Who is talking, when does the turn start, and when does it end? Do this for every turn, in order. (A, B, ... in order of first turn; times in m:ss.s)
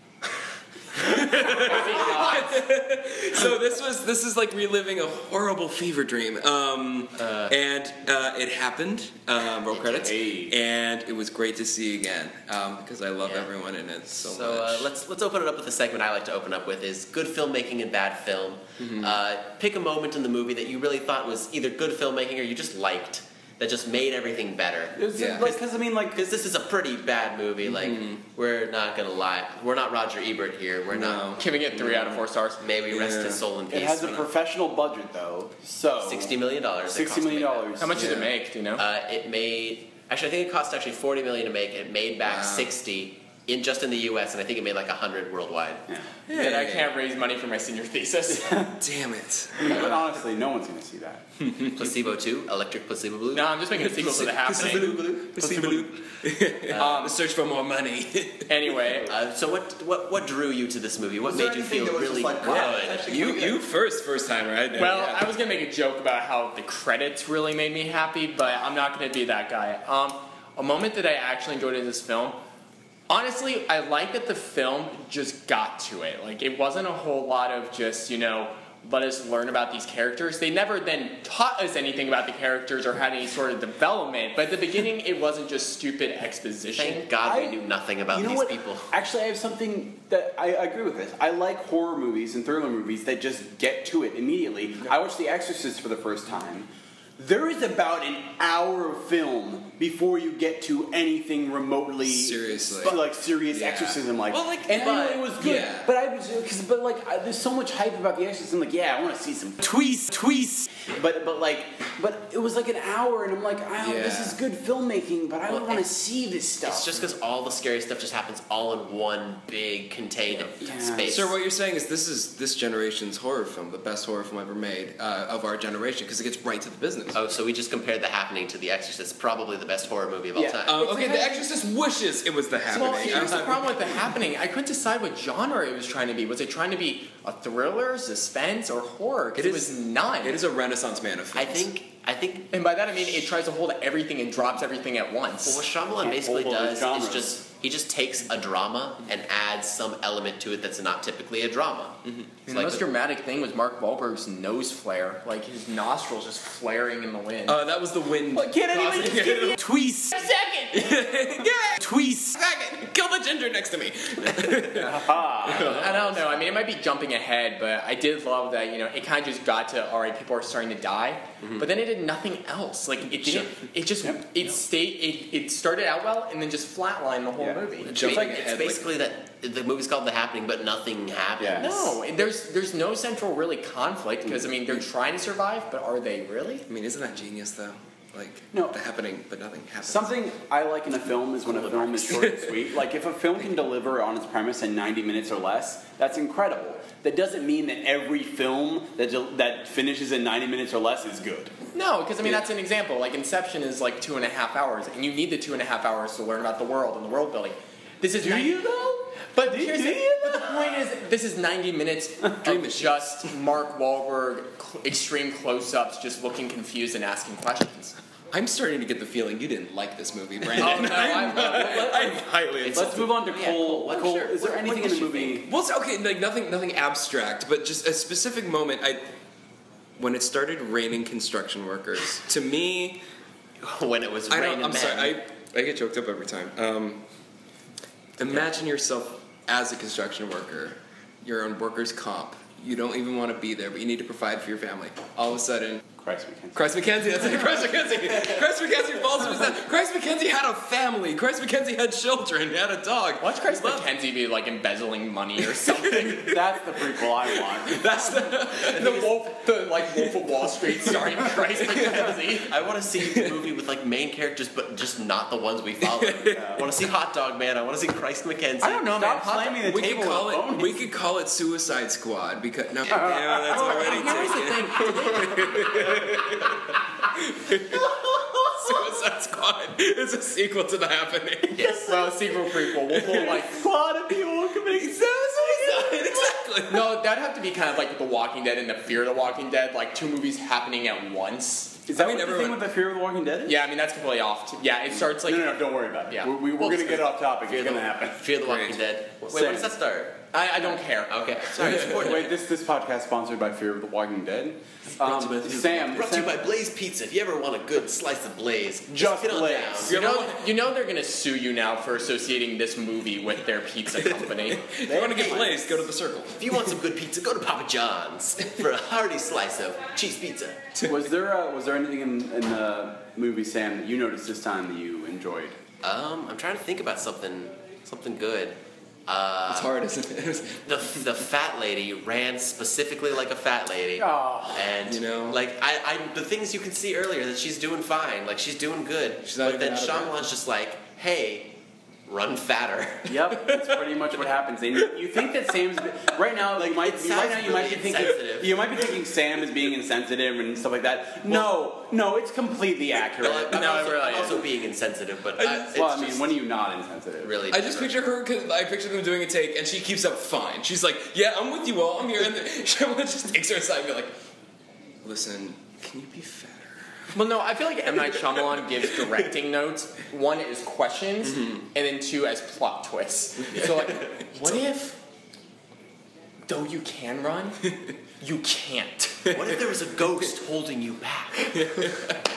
0:00.9-0:14.9 A
0:01.4-0:02.6 B
0:07.2-0:07.5 C
0:09.7-0:10.1 C
0:10.0-0:10.6 D
0:13.2-0:13.5 C
0:14.1-0:25.5 C
0:18.8-0:19.2 A
0:24.9-0:26.3 D
0:25.2-0:25.5 A
0:26.1-0:31.3 C
0:27.7-0:28.2 A
0:30.9-0:31.4 A
0:31.4-0:32.6 B
0:32.6-0:34.3 C
0:32.9-0:33.4 A
0:33.7-0:38.1 D
0:36.0-0:38.0 C
0:37.8-0:38.8 B
0:38.0-0:38.3 A
0:38.8-0:45.8 C
0:42.2-0:42.7 A
0:46.3-0:46.9 A
0:46.3-0:48.6 B
0:48.3-0:48.8 D
0:48.8-0:49.8 A
0:49.6-0:51.3 D
0:51.4-0:51.7 A
0:51.7-0:53.6 C
0:53.3-0:55.0 B
0:53.8-0:58.5 A
0:54.5-0:55.8 C
0:55.3-0:55.8 D
0:56.7-0:57.0 C
0:56.8-0:57.2 B
0:58.5-0:59.1 B
0:59.1-1:03.2 C
1:01.2-1:03.6 D
1:02.4-1:05.3 A
1:04.8-1:12.4 B
1:13.1-1:27.1 B
1:26.8-1:28.9 C
1:27.2-1:27.6 D
1:28.1-1:56.9 D
1:42.0-1:44.0 A
1:44.3-1:45.3 C
1:45.4-1:45.9 A
1:53.8-1:54.4 A
1:55.5-1:55.8 C
1:56.6-2:01.3 C
2:00.3-2:01.1 D
2:01.0-2:07.2 A
2:07.1-2:10.8 C
2:10.3-2:11.4 D
2:10.6-2:14.1 A
2:12.7-2:20.4 B
2:19.4-2:21.7 A
2:21.3-2:22.5 C
2:22.5-2:25.7 B
2:25.4-2:32.8 C
2:26.0-2:27.4 D
2:32.0-2:32.3 A
2:32.4-2:37.6 B
2:37.5-2:39.6 A
2:38.3-2:40.3 D
2:40.1-2:40.9 B
2:40.7-2:46.2 A
2:41.4-2:42.4 D
2:44.7-2:45.8 D
2:45.7-2:58.2 B
2:57.9-3:02.0 C
2:57.9-2:58.9 A
3:01.4-3:01.7 D
3:01.6-3:06.6 B
3:06.7-3:10.2 A
3:09.8-3:21.5 D
3:11.4-3:12.3 C
3:12.2-3:12.6 A
3:21.7-3:28.7 B
3:28.2-3:30.8 D
3:29.3-3:37.9 B
3:32.4-3:33.3 A
3:38.3-3:43.1 A
3:40.6-3:45.4 D
3:40.6-3:42.2 B
3:43.1-3:45.4 C
3:45.4-3:49.0 A
3:50.0-3:53.0 A
3:53.6-3:55.2 C
3:54.3-3:57.0 A
3:58.2-4:05.8 A
4:06.0-4:06.6 D
4:06.5-4:13.8 A
4:13.2-4:16.3 B
4:15.7-4:16.2 A
4:16.0-4:18.3 D
4:17.0-4:19.0 A
4:18.6-4:22.5 B
4:20.8-4:22.1 A
4:22.4-4:29.0 C
4:25.8-4:26.6 A
4:26.4-4:26.6 D
4:28.6-4:30.8 D
4:28.9-4:29.6 B
4:29.6-4:41.8 A
4:32.9-4:35.6 D
4:33.4-4:36.0 C
4:41.5-4:42.0 C
4:41.6-4:42.1 D
4:41.8-4:43.6 B
4:43.0-4:46.4 D
4:44.7-4:47.0 A
4:46.7-4:51.8 B
4:51.9-4:53.6 D
4:51.9-4:52.6 A
4:53.4-4:57.0 B
4:54.9-4:58.3 D
4:57.5-5:00.3 C
4:58.4-4:58.8 A
4:59.3-4:59.7 D
5:00.3-5:01.4 B
5:01.1-5:02.3 C
5:01.5-5:06.4 D
5:05.0-5:05.8 A
5:05.6-5:10.0 C
5:08.9-5:10.0 D
5:09.8-5:14.6 B
5:09.9-5:10.4 A
5:14.6-5:16.6 A
5:14.8-5:15.9 D
5:15.1-5:15.5 C
5:16.3-5:20.6 C
5:20.8-5:25.6 D
5:25.8-5:29.7 C
5:29.5-5:30.6 A
5:30.6-5:41.6 C
5:34.0-5:34.7 D
5:34.8-5:35.4 A
5:39.2-5:40.1 A
5:42.1-5:43.1 C
5:43.0-5:53.8 D
5:43.3-5:43.8 A
5:46.6-5:48.6 C
5:53.2-5:56.4 C
5:53.5-5:54.4 B
5:55.4-5:55.7 A
5:55.7-5:57.4 D
5:57.2-5:58.0 C
5:57.5-6:04.2 A
6:05.0-6:07.1 A
6:07.1-6:15.0 B
6:08.1-6:09.1 A
6:11.3-6:11.6 A
6:16.5-6:17.6 B
6:18.2-6:19.3 B
6:19.3-6:21.9 C
6:21.5-6:22.2 A